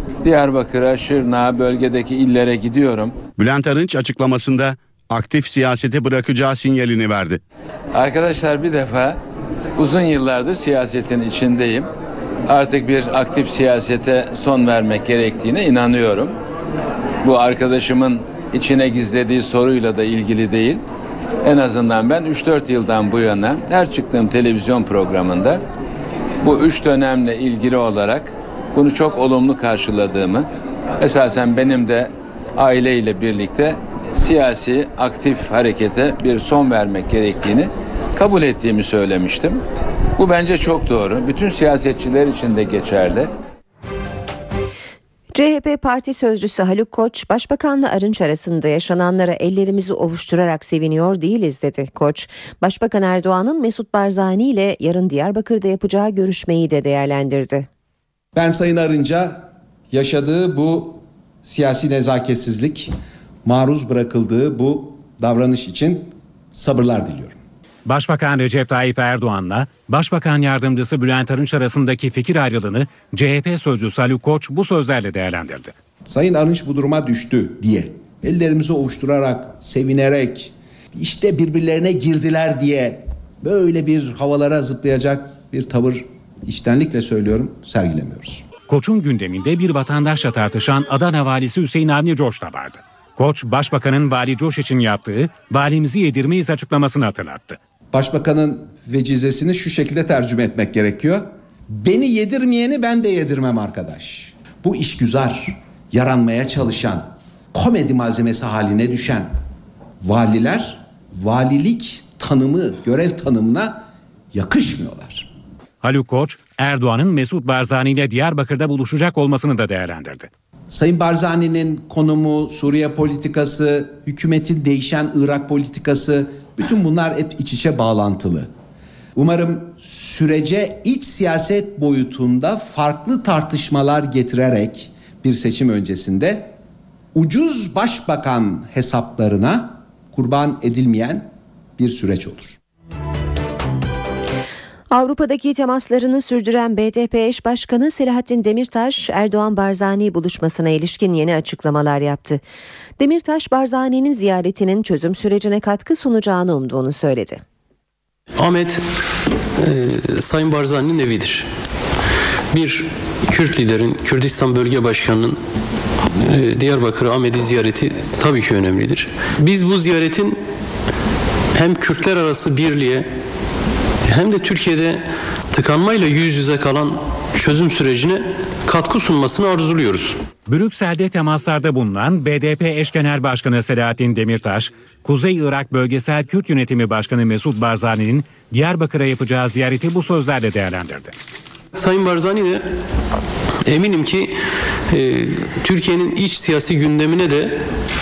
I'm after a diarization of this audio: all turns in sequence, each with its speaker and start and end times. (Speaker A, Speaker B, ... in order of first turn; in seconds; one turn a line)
Speaker A: 0.2-3.1
Speaker B: 3.4-7.4
Speaker A: 7.9-9.2
Speaker A: 9.8-11.9
Speaker A: 12.5-16.4
Speaker A: 17.2-20.8
Speaker A: 21.4-25.6
Speaker A: 26.4-30.5
Speaker A: 31.0-39.6
Speaker A: 40.2-43.3
Speaker C: 45.3-57.7
Speaker D: 58.3-67.4
Speaker E: 67.8-75.7
Speaker D: 76.0-88.5
Speaker E: 88.7-97.6
Speaker D: 97.9-109.3
Speaker D: 110.0-115.3
Speaker E: 115.8-120.3
Speaker D: 120.7-128.5
Speaker D: 129.1-136.5
Speaker D: 137.1-142.6
Speaker C: 144.9-152.4
Speaker C: 153.0-157.4
Speaker F: 158.4-158.8
Speaker F: 159.6-161.5
Speaker F: 162.5-165.4
Speaker F: 166.0-170.4
Speaker F: 171.5-173.1
Speaker F: 174.0-180.2
Speaker E: 180.5-191.1
Speaker F: 191.7-192.7
Speaker F: 193.6-194.4
Speaker F: 194.9-197.7